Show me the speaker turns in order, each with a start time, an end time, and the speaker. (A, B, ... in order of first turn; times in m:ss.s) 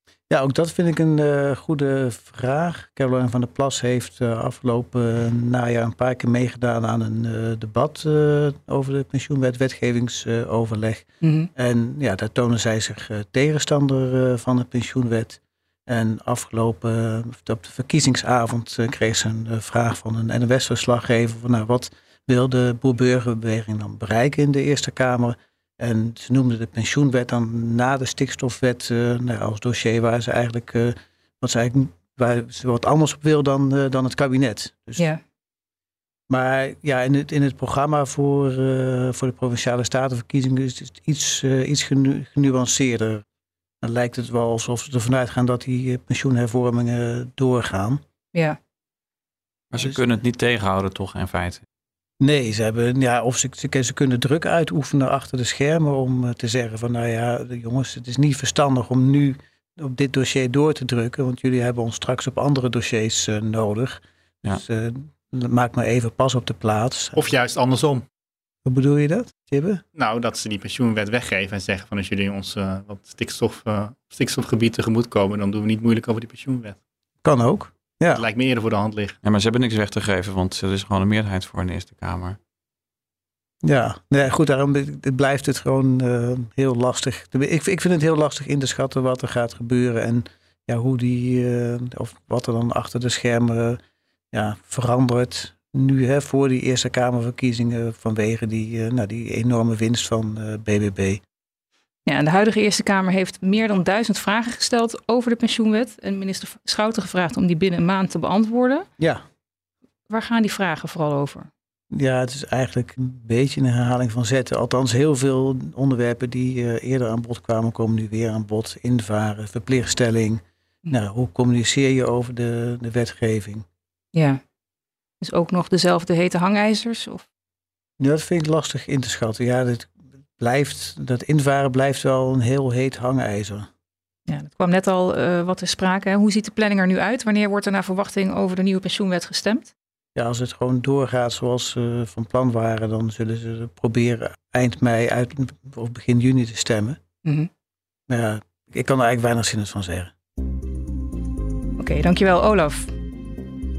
0:00.3-0:35.1 A
0:11.2-0:11.5 B
0:36.3-0:43.2 A
0:43.8-0:48.0 A
0:48.3-0:48.6 B
0:49.7-0:51.6 C
0:52.2-1:07.3 A
1:07.2-1:08.0 D
1:08.6-1:09.8 A
1:09.9-1:16.8 D
1:17.2-1:18.2 A
1:18.2-1:19.2 D
1:19.2-1:22.4 C
1:23.6-1:33.8 A
1:34.3-1:41.2 A
1:42.0-1:48.8 B
1:50.1-1:51.5 B
1:51.9-2:03.6 A
2:04.1-2:04.4 B
2:05.2-2:07.3 B
2:08.0-2:13.7 A
2:14.3-2:19.7 B
2:20.2-2:27.0 A
2:28.1-2:30.1 A
2:31.8-2:32.9 B